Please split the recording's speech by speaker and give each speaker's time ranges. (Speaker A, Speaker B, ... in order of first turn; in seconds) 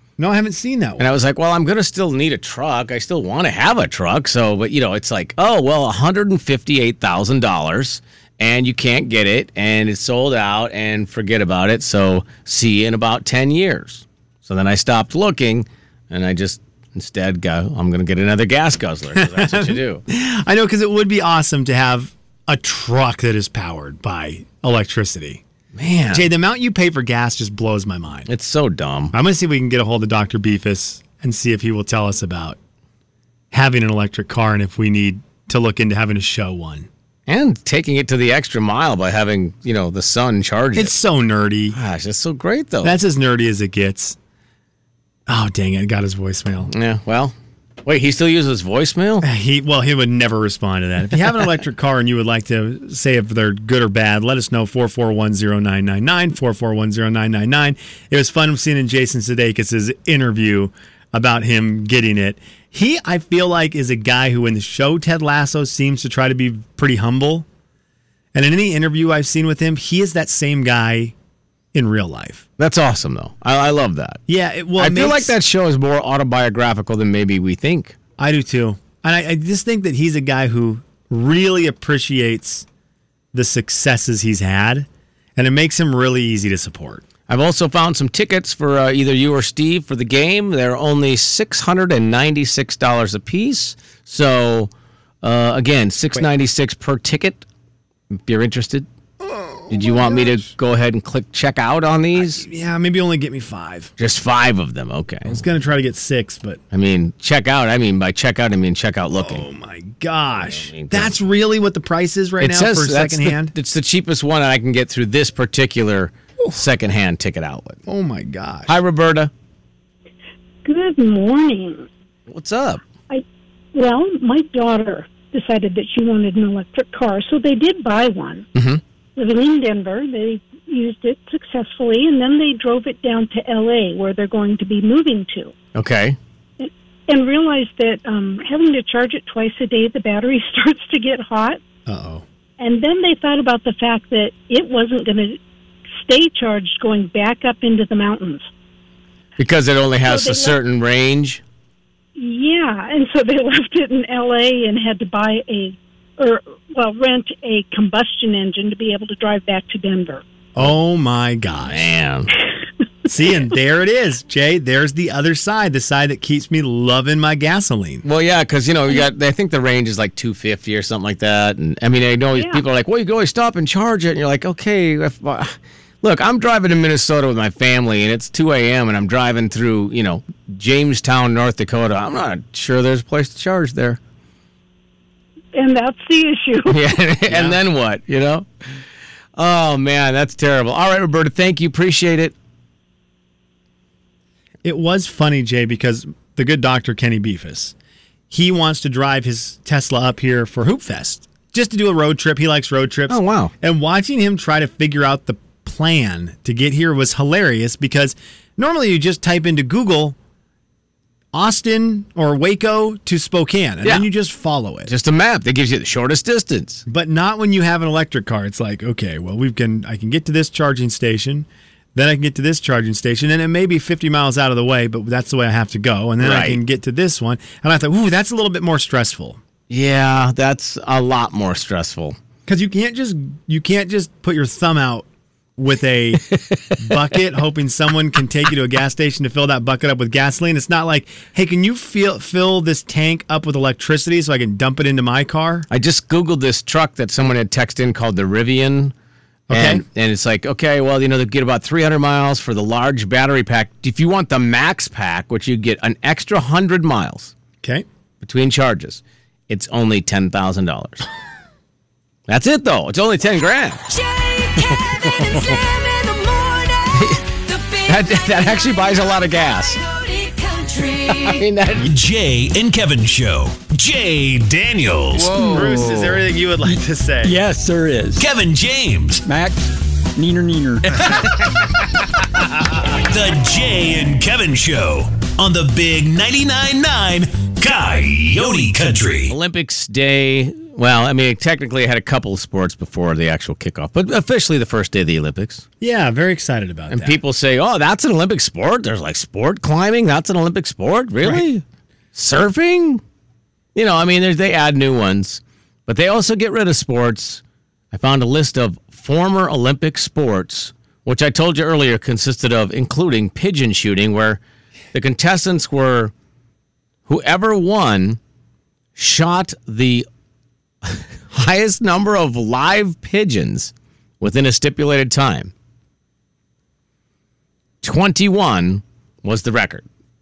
Speaker A: 0.2-1.1, 19.2-25.4, 26.1-28.3, 29.1-32.6, 33.5-36.9, 40.8-41.8, 42.8-44.2, 45.3-46.7, 49.2-67.5, 68.3-71.1, 71.7-72.5, 74.3-75.3, 78.2-82.7, 83.3-87.0, 99.2-100.5, 102.2-103.9, 105.3-106.6, 109.2-113.5, 117.9-118.8, 141.9-142.2, 160.6-161.8, 163.1-168.0, 187.3-187.6, 194.6-197.8, 198.3-210.2, 211.3-214.9, 216.9-229.4, 232.5-245.7, 249.5-249.8, 275.4-277.4, 295.8-297.2
Speaker B: 1.0-20.0, 25.7-26.3, 28.3-29.1, 37.3-41.0, 41.7-43.0, 46.7-49.3, 72.6-74.2, 74.8-78.0, 87.3-94.7, 95.2-97.5, 98.1-98.9, 99.7-102.4, 104.0-105.4, 106.7-109.5, 110.4-111.1, 112.4-117.8, 118.7-119.3, 122.3-122.8, 128.6-128.8, 135.8-136.2, 149.4-151.4, 161.7-162.3, 168.0-184.0, 186.7-188.5, 189.4-192.3, 203.1-203.5, 214.9-216.8, 226.2-226.6, 229.7-232.2, 236.3-236.8, 245.7-248.9, 249.5-257.3, 258.2-261.1, 262.3-263.8, 267.0-267.2, 267.9-269.8, 271.1-271.9, 289.3-295.6, 296.9-301.6, 302.1-303.0, 303.8-314.4, 314.9-316.1, 317.1-318.2, 319.0-320.1, 320.8-325.5, 327.8-329.9
Speaker C: 120.7-121.9, 123.1-128.5, 129.2-135.5, 136.6-141.6, 142.6-145.4, 146.0-148.5, 150.1-150.6, 152.2-160.2, 172.3-172.6, 185.5-186.9
Speaker D: 263.9-271.4
Speaker E: 271.8-275.4, 278.2-279.2, 282.9-289.4
Speaker F: 275.1-278.3, 279.2-279.6, 280.2-281.3